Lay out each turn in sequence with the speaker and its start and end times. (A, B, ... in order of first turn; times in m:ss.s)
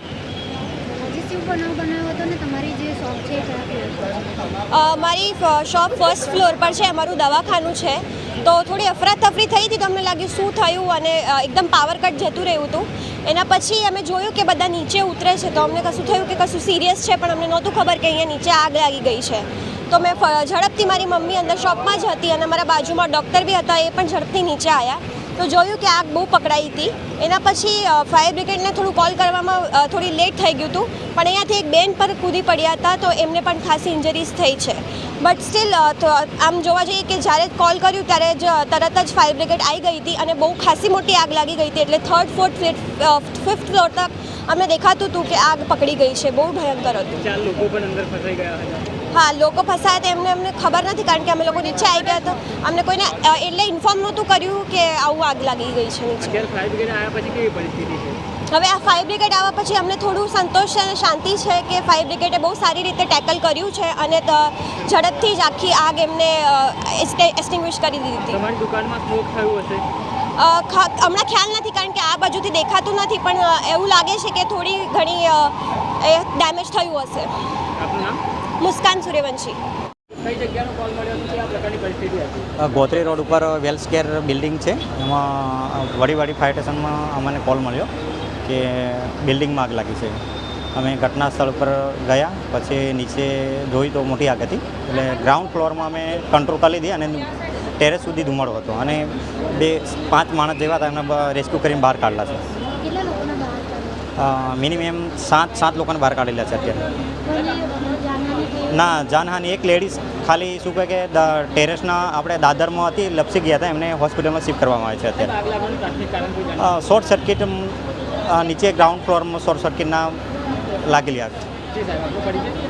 0:01.0-0:04.0 A
0:04.7-0:47.2 B
0:47.2-0:48.9 C
0:49.1-0:56.4 B
0:56.2-0:58.2 C
0:58.5-1:08.4 B
1:08.3-1:09.8 C
1:10.4-1:17.3 B
1:17.8-1:18.2 C
1:18.6-1:19.6 B
1:20.2-1:22.5 C
1:22.6-1:27.9 D
1:28.4-1:30.2 D
1:30.7-1:42.4 D
1:42.8-1:44.0 A
1:44.2-1:46.8 D
1:47.3-1:48.7 A
1:48.7-1:55.3 D
1:55.2-1:56.7 C
1:56.6-2:00.2 D
2:00.8-2:01.4 D
2:01.8-2:02.5 C